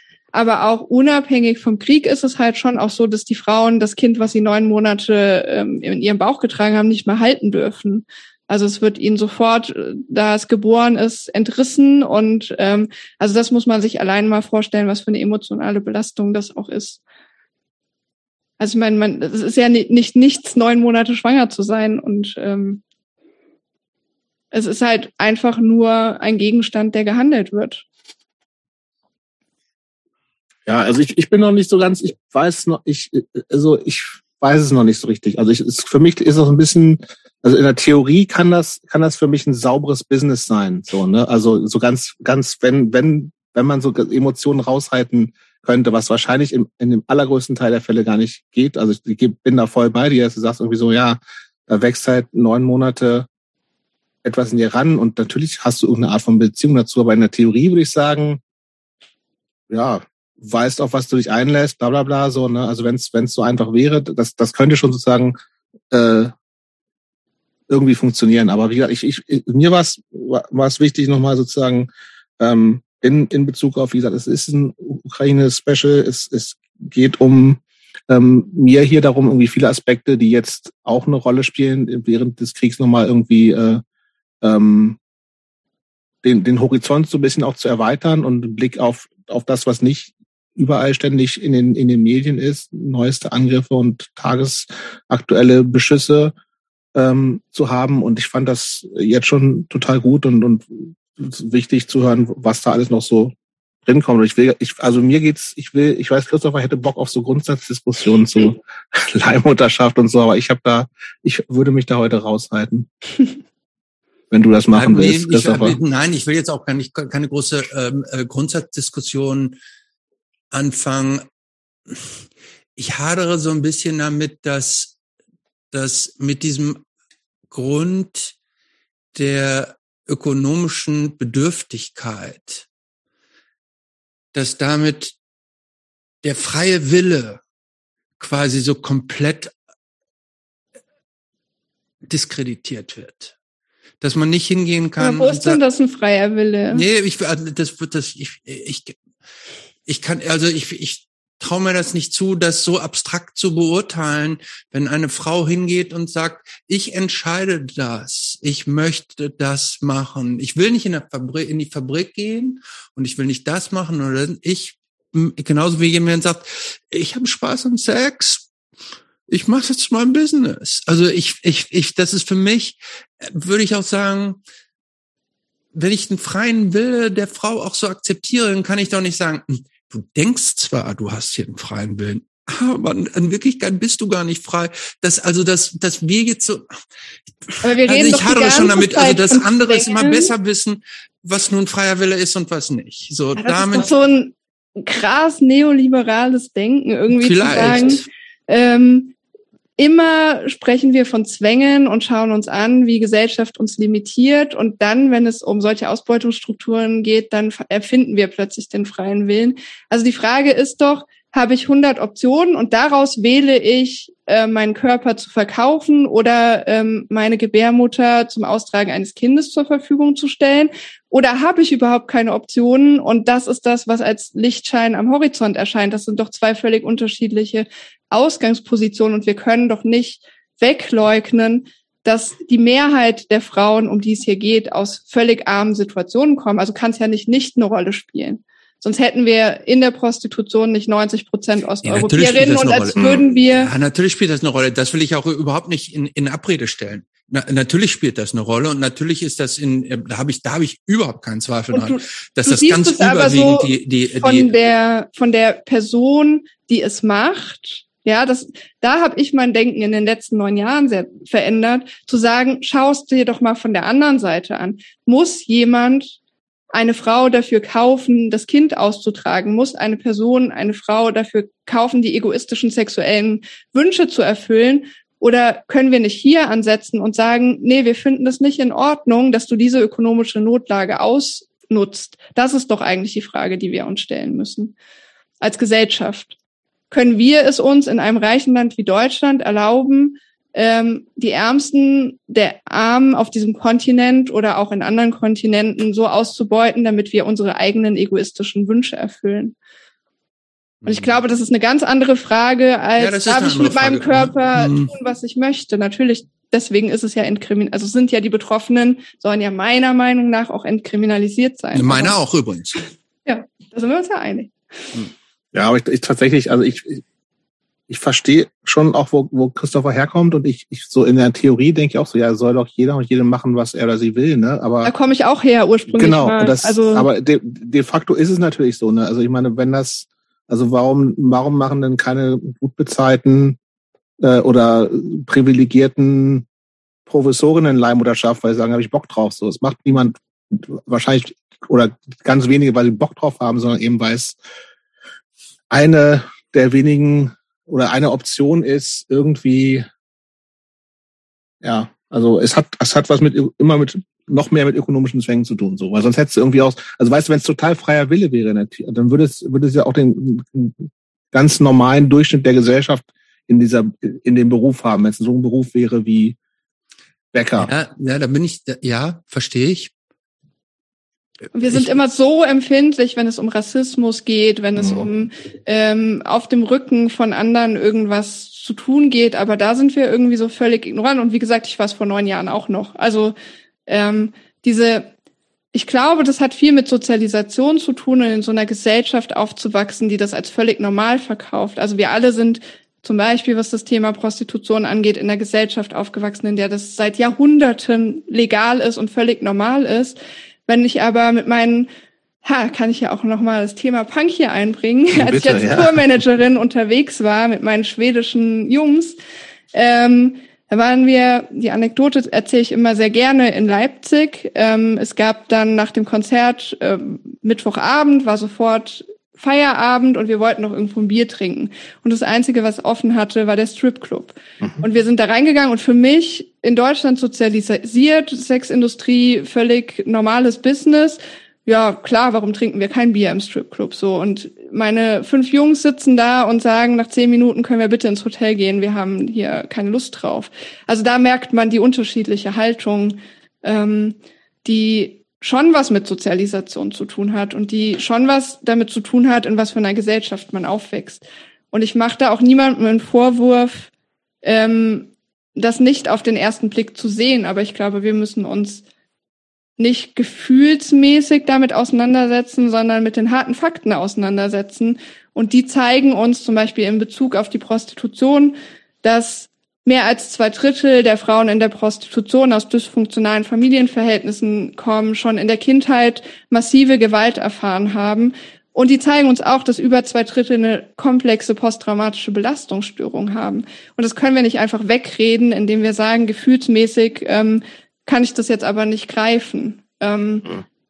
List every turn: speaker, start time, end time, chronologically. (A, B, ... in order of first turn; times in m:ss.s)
0:00.3-0:17.0 A
0:18.6-0:22.8 A
0:24.5-0:27.8 A
0:30.6-0:53.3 B
0:54.2-0:58.4 B
0:59.7-1:05.4 B
1:05.9-1:06.3 B
1:07.7-1:11.9 B
1:12.4-1:23.8 B
1:24.4-1:25.0 B
1:26.2-1:36.3 B
1:36.9-1:52.9 B
1:54.3-1:55.8 B
1:54.7-1:59.6 C
2:00.5-2:01.2 C
2:02.8-2:05.0 C
2:05.7-2:06.8 C
2:07.5-2:08.3 C
2:09.1-2:12.6 C
2:14.3-2:15.1 C
2:16.2-2:17.4 C
2:18.2-2:19.5 C
2:22.1-2:23.3 C
2:24.0-2:25.6 C
2:25.0-2:26.8 A
2:26.7-2:29.0 C
2:29.8-2:48.5 C
2:49.3-2:54.4 C
2:55.7-3:06.8 C
3:07.5-3:13.9 C
3:07.6-3:10.3 A
3:13.4-3:19.1 A
3:17.1-3:18.0 C
3:19.8-4:03.7 A
4:01.8-4:14.5 C
4:03.0-4:03.2 B
4:11.7-4:26.2 A
4:26.7-4:44.7 A
4:45.4-4:46.3 A
4:46.9-4:59.5 A
5:00.8-5:01.2 C
5:00.8-5:12.2 A
5:03.0-5:04.9 C
5:11.7-5:12.8 C
5:13.2-5:14.5 A
5:15.5-5:17.0 B
5:17.9-5:24.9 B
5:24.8-5:27.1 A
5:25.9-5:33.6 B
5:34.2-5:36.5 B
5:37.0-5:44.4 B
5:45.7-5:49.9 B
5:51.6-6:06.4 B
6:07.3-6:07.7 B
6:07.6-6:09.9 C
6:11.5-6:23.3 A
6:11.6-6:11.9 C
6:14.8-6:15.1 B
6:23.9-6:25.1 A
6:25.7-6:41.9 A
6:42.4-6:49.2 A
6:45.1-6:46.0 B
6:49.7-7:33.9 A
7:34.4-7:38.8 A
7:39.8-8:10.5 A